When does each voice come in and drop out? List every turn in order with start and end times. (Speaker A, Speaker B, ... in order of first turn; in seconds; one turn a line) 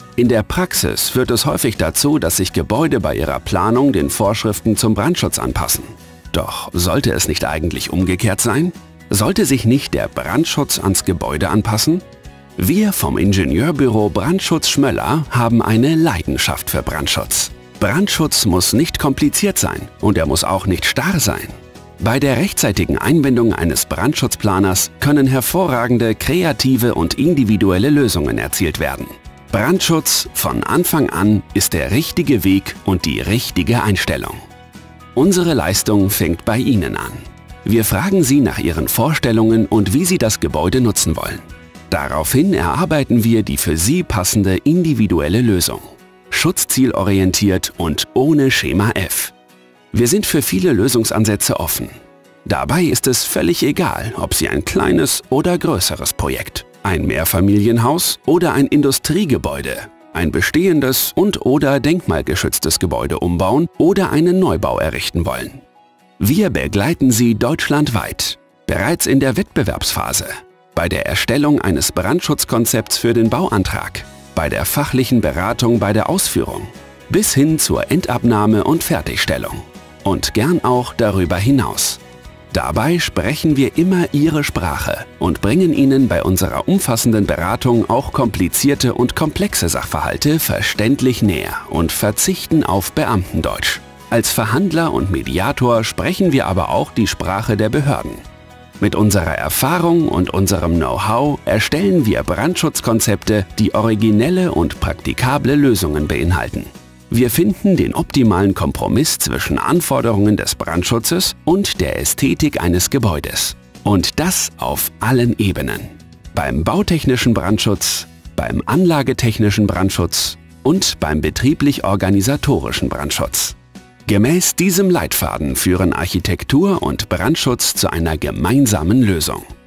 Speaker A: 0.1-12.0
Speaker A: 12.6-34.4
Speaker A: 35.1-49.3
Speaker A: 49.9-65.6
Speaker A: 66.2-82.0
Speaker A: 82.5-98.2
Speaker A: 98.8-129.5